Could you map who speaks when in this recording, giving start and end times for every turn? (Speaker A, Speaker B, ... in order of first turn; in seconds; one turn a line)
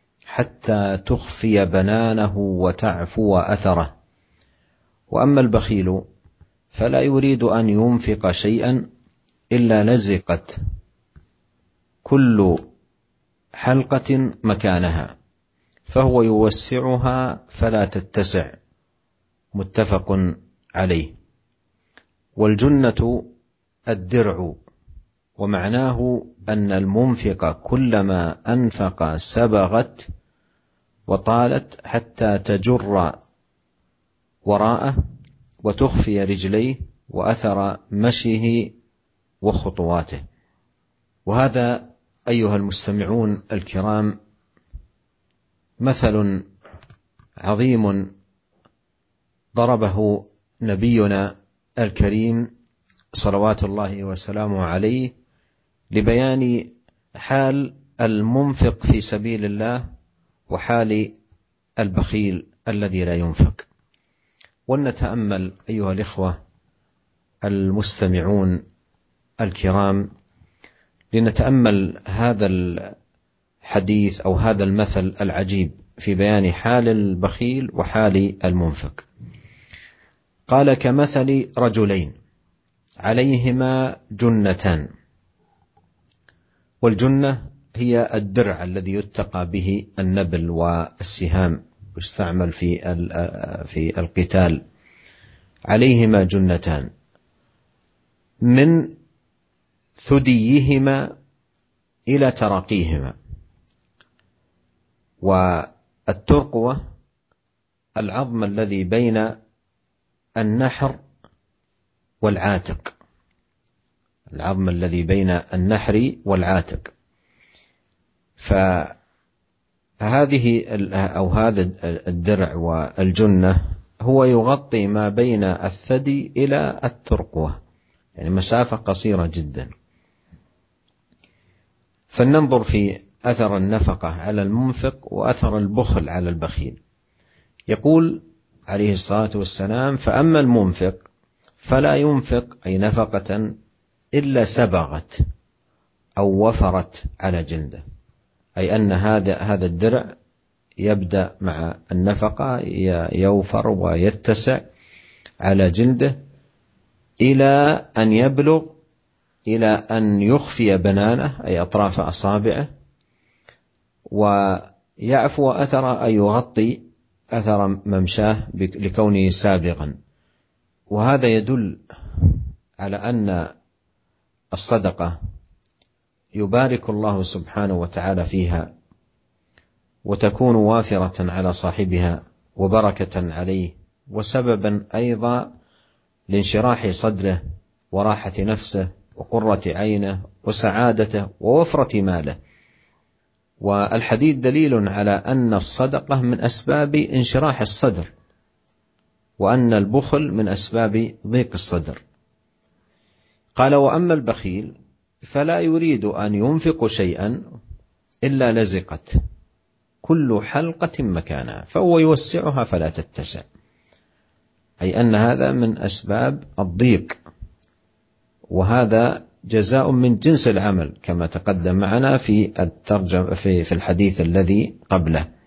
Speaker A: 0.3-3.9
Speaker A: 5.1-6.0
Speaker A: 6.7-8.8
Speaker A: 9.5-10.6
Speaker A: 12.1-12.6
Speaker A: 13.6-15.1
Speaker A: 15.9-18.6
Speaker A: 19.6-21.1
Speaker A: 22.4-23.3
Speaker A: 23.9-24.6
Speaker A: 25.4-30.1
Speaker A: 31.1-33.2
Speaker A: 34.5-35.0
Speaker A: 35.6-38.7
Speaker A: 39.4-40.2
Speaker A: 41.3-44.1
Speaker A: 45.8-46.5
Speaker A: 47.4-48.1
Speaker A: 49.6-52.5
Speaker A: 53.1-55.1
Speaker A: 55.9-59.8
Speaker A: 60.5-61.1
Speaker A: 61.8-63.7
Speaker A: 64.7-66.4
Speaker A: 67.4-68.6
Speaker A: 69.4-70.1
Speaker A: 71.1-73.0
Speaker A: 73.7-79.1
Speaker A: 80.5-82.1
Speaker A: 83.0-84.9
Speaker A: 86.8-94.6
Speaker A: 95.7-96.9
Speaker A: 98.5-99.0
Speaker A: 100.0-101.1
Speaker A: 102.1-103.2
Speaker A: 105.2-106.8
Speaker A: 108.0-109.3
Speaker A: 110.4-111.0
Speaker A: 112.2-112.9
Speaker A: 114.3-116.9
Speaker A: 118.4-119.0
Speaker A: 120.0-127.6
Speaker A: 128.2-129.7
Speaker A: 132.1-136.8
Speaker A: 137.7-141.0
Speaker A: 141.6-143.5
Speaker A: 144.2-145.2
Speaker A: 146.2-147.8
Speaker A: 148.6-150.1
Speaker A: 150.8-154.6
Speaker A: 155.4-156.2
Speaker A: 157.2-158.8
Speaker A: 159.5-162.7
Speaker A: 164.1-166.8
Speaker A: 167.3-169.9
Speaker A: 170.9-173.5
Speaker A: 174.5-175.2
Speaker A: 176.4-178.7
Speaker A: 180.1-185.5
Speaker A: 186.3-187.4
Speaker A: 187.9-192.4
Speaker A: 193.6-198.1
Speaker A: 199.4-202.0
Speaker A: 203.6-204.7
Speaker A: 205.2-207.4
Speaker A: 208.2-209.2
Speaker A: 210.0-213.4
Speaker A: 214.8-217.2
Speaker A: 218.5-225.2